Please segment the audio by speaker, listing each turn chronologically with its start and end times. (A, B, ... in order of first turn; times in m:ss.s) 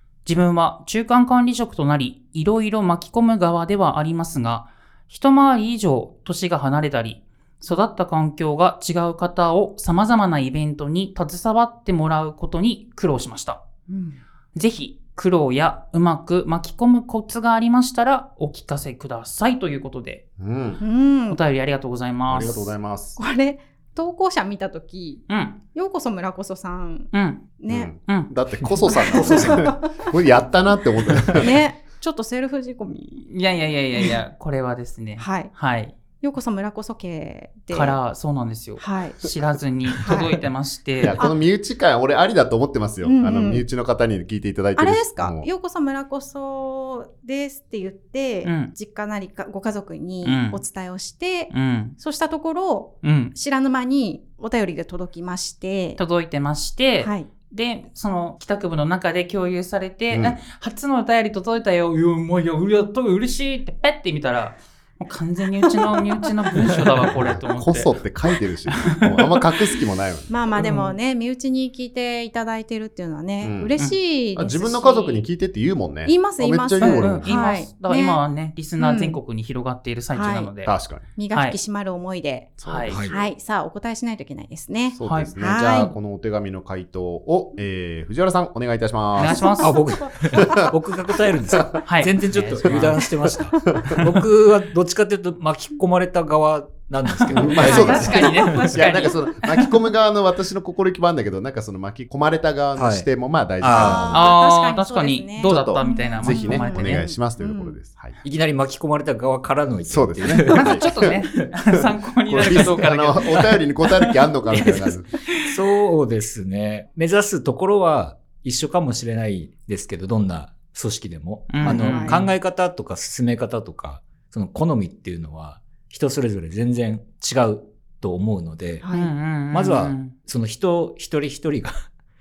0:00.2-0:13.6 A
0:13.9-0:14.2 B
0:14.5-0:20.2 A
0:20.4-0:20.8 C
0:20.8-0:21.4 B
0:21.3-0:22.7 A
0:22.3-0:23.2 C
0:23.2-0:27.9 B
0:25.3-0:25.6 A
0:27.1-0:27.5 A
0:27.7-0:31.5 C
0:28.6-0:29.6 D
0:28.8-0:29.9 B
0:31.3-0:33.3 B
0:33.3-0:35.9 A
0:35.2-0:35.5 B
0:36.2-0:38.0 B
0:37.7-0:41.2 A
0:38.8-0:39.3 B
0:40.0-0:40.3 B
0:41.0-0:45.5 C
0:43.0-0:43.6 B
0:44.8-0:56.0 B
0:48.4-0:48.7 A
0:50.2-0:50.6 A
0:51.5-0:52.0 A
0:53.0-0:53.3 A
0:56.0-1:07.9 A
0:57.0-0:57.3 B
1:00.1-1:00.4 C
1:06.6-1:06.9 D
1:07.2-1:10.3 C
1:08.7-1:09.4 A
1:10.3-1:15.2 B
1:10.6-1:10.9 A
1:13.4-1:13.7 C
1:14.3-1:17.3 C
1:16.0-1:18.2 B
1:16.8-1:20.7 A
1:18.8-1:19.2 B
1:20.1-1:20.5 B
1:20.6-1:21.1 C
1:21.2-1:25.9 B
1:21.3-1:21.6 A
1:22.6-1:23.0 C
1:22.6-1:23.0 A
1:22.9-1:23.2 D
1:24.9-1:30.7 C
1:25.0-1:25.3 A
1:29.1-1:29.8 A
1:29.6-1:38.7 D
1:31.5-1:31.8 C
1:31.8-1:33.0 A
1:32.6-1:33.0 C
1:33.6-1:34.0 C
1:37.3-1:44.4 C
1:37.4-1:39.4 A
1:37.6-1:38.8 B
1:42.8-1:43.1 D
1:43.6-1:44.2 D
1:43.7-1:47.8 B
1:44.1-1:47.1 A
1:45.4-1:48.2 C
1:48.2-1:51.2 D
1:49.9-1:51.0 C
1:50.5-1:53.6 A
1:52.3-1:55.1 C
1:52.3-2:08.8 D
2:01.5-2:02.2 A
2:01.6-2:02.3 B
2:08.8-2:09.1 B
2:08.9-2:10.1 A
2:09.5-2:11.8 D